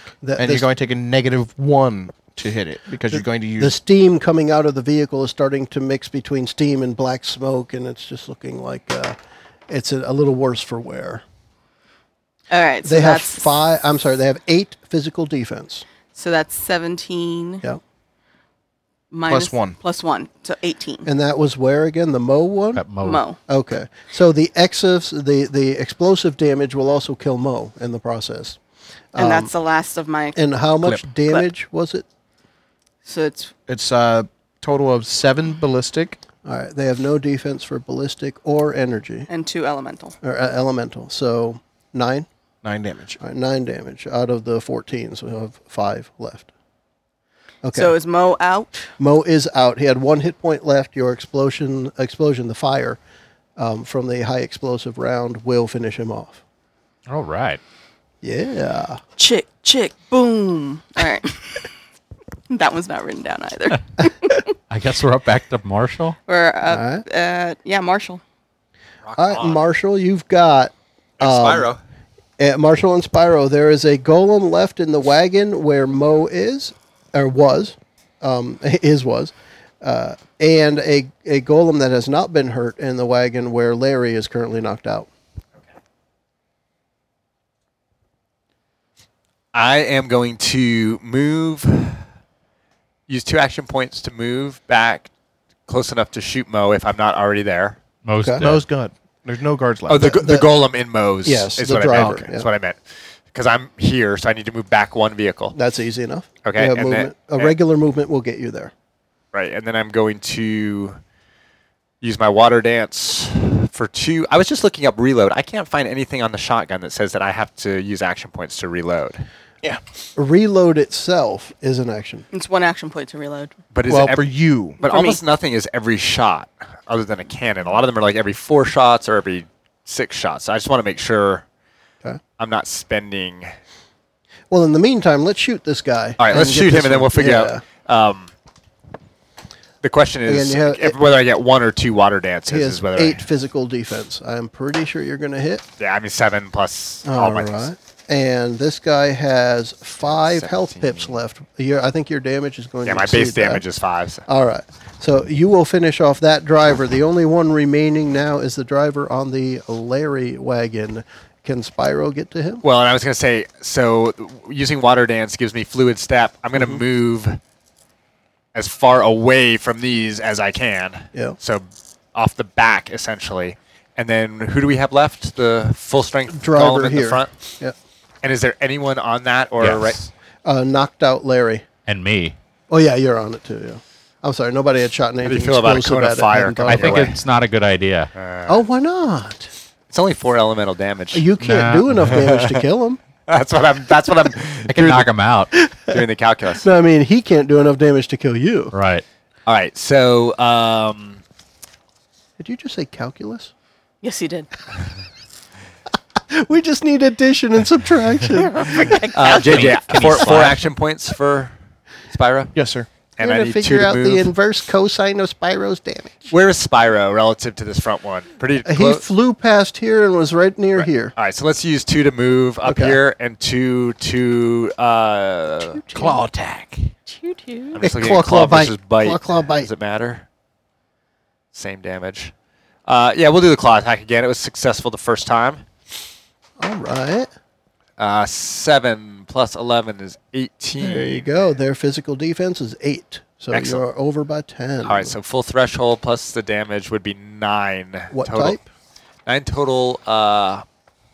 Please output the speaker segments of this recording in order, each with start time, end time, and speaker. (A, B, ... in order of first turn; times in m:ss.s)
0:00.2-0:00.7 A
0:00.4-0:03.7 B
0:03.1-0:09.2 A
0:09.7-0:11.2 A
0:12.5-0:13.5 C
0:12.8-0:15.8 A
0:16.1-0:17.6 C
0:19.1-0:21.1 C
0:19.3-0:19.8 B
0:21.0-0:22.8 A
0:22.7-0:23.2 D
0:23.0-0:23.4 C
0:23.4-0:28.6 A
0:29.1-0:29.5 A
0:29.2-0:30.5 C
0:30.4-0:32.0 A
0:33.0-0:33.5 C
0:33.7-0:36.2 B
0:36.4-0:39.3 A
0:39.3-0:40.2 C
0:40.2-0:42.3 A
0:42.6-0:43.2 B
0:43.2-0:46.5 A
0:47.6-0:47.9 A
0:47.7-0:48.9 C
0:49.0-0:53.0 A
0:53.6-0:56.4 A
0:57.1-0:57.6 D
0:58.2-0:59.0 A
0:59.2-1:01.6 C
1:02.5-1:04.4 C
1:04.7-1:06.2 D
1:06.3-1:08.2 C
1:06.7-1:07.0 A
1:09.0-1:09.6 E
1:09.2-1:11.7 A
1:11.2-1:11.8 E
1:12.4-1:25.1 A
1:29.5-1:32.0 E
1:33.1-1:35.1 E
1:35.7-1:37.8 E
1:38.0-1:38.6 D
1:38.2-1:38.5 A
1:38.4-1:40.1 B
1:39.9-1:45.6 E
1:40.0-1:40.6 A
1:41.2-1:42.5 A
1:41.9-1:42.2 D
1:45.5-1:48.7 A
1:46.4-1:47.5 E
1:49.3-1:51.0 E
1:52.0-1:59.2 E
2:00.2-2:02.2 A
2:02.3-2:03.5 C
2:03.7-2:11.4 E
2:03.9-2:04.8 B
2:04.8-2:05.2 C
2:12.4-2:13.5 E
2:14.5-2:17.6 A
2:16.2-2:18.3 E
2:19.8-2:23.2 E
2:20.3-2:21.0 A
2:22.5-2:25.6 A
2:25.8-2:27.7 E
2:27.0-2:33.6 A
2:30.1-2:31.2 E
2:32.8-2:34.2 E
2:34.3-2:42.6 A
2:42.6-2:47.4 E
2:48.5-2:57.4 E
2:56.3-2:57.7 A
2:58.2-3:00.0 E
2:59.6-3:00.1 D
3:00.4-3:01.6 A
3:01.8-3:02.4 D
3:02.7-3:07.1 A
3:05.2-3:07.2 E
3:06.7-3:08.1 D
3:08.1-3:08.6 E
3:08.5-3:09.5 A
3:09.9-3:11.3 E
3:11.1-3:13.0 A
3:11.4-3:12.1 D
3:12.0-3:12.6 E
3:13.3-3:15.1 E
3:14.7-3:15.5 D
3:15.8-3:16.7 E
3:16.6-3:18.7 A
3:18.7-3:19.0 D
3:19.4-3:21.2 E
3:22.4-3:23.5 A
3:24.0-3:24.5 C
3:26.3-3:29.0 A
3:28.4-3:29.7 C
3:29.1-3:30.6 D
3:29.2-3:31.5 E
3:32.1-3:32.5 E
3:32.5-3:32.9 B
3:33.2-3:34.3 E
3:33.2-3:36.3 A
3:36.3-3:39.0 E
3:38.6-3:41.1 A
3:40.8-3:45.8 E
3:42.6-3:43.0 A
3:45.9-3:46.9 D
3:47.1-3:47.8 C
3:47.7-3:50.2 E
3:47.8-3:49.7 A
3:51.5-3:52.3 E
3:52.8-3:55.6 E
3:56.6-3:57.3 A
3:58.0-4:01.3 E
4:00.8-4:05.2 A
4:03.5-4:03.8 E
4:04.8-4:08.6 E
4:08.1-4:08.7 A
4:09.2-4:10.6 E